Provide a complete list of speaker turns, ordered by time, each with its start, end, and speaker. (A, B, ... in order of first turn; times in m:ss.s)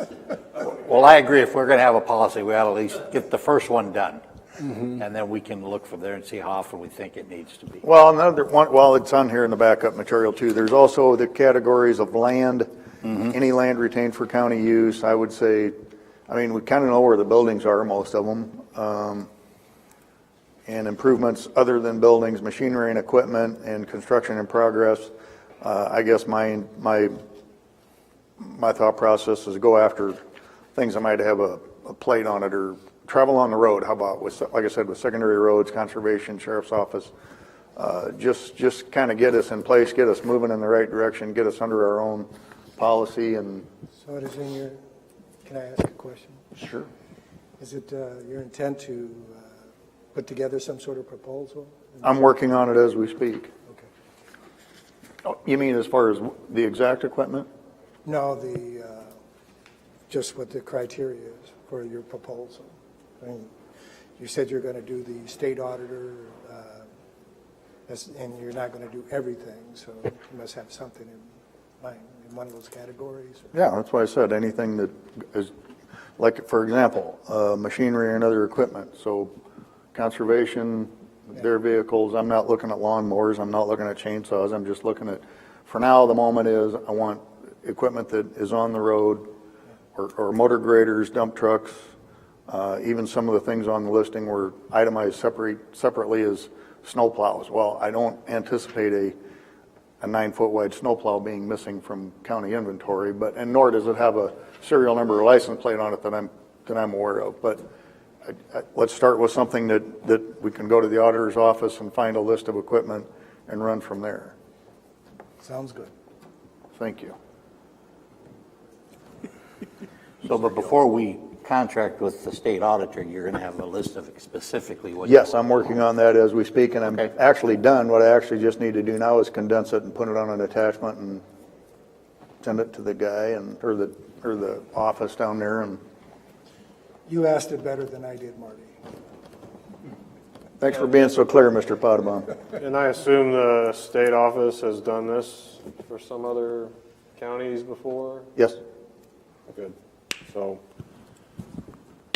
0:00.6-0:07.8 A
0:07.8-0:15.8 B
0:16.3-0:19.3 B
0:20.7-0:27.1 B
0:28.4-0:30.2 B
0:30.8-0:37.1 B
0:37.8-0:43.7 B
0:44.0-0:44.8 C
0:45.4-0:46.5 C
0:46.6-0:46.9 B
0:47.6-0:49.5 C
0:50.1-0:52.1 C
0:52.0-0:53.5 B
0:55.2-0:57.5 B
0:58.0-0:59.1 C
1:00.1-1:03.5 C
1:04.2-1:06.9 C
1:07.9-1:11.3 C
1:11.8-1:13.5 C
1:13.5-1:15.5 B
1:16.2-1:19.3 B
1:19.9-1:29.3 B
1:30.0-1:31.9 B
1:32.5-1:39.2 B
1:40.0-1:47.6 B
1:48.3-1:54.3 B
1:55.4-1:55.9 C
1:56.8-1:57.2 B
2:00.2-2:05.2 A
2:05.1-2:11.2 B
2:12.4-2:15.8 B
2:17.1-2:18.8 C
2:20.6-2:22.3 B
2:22.6-2:28.3 D
2:30.3-2:30.6 D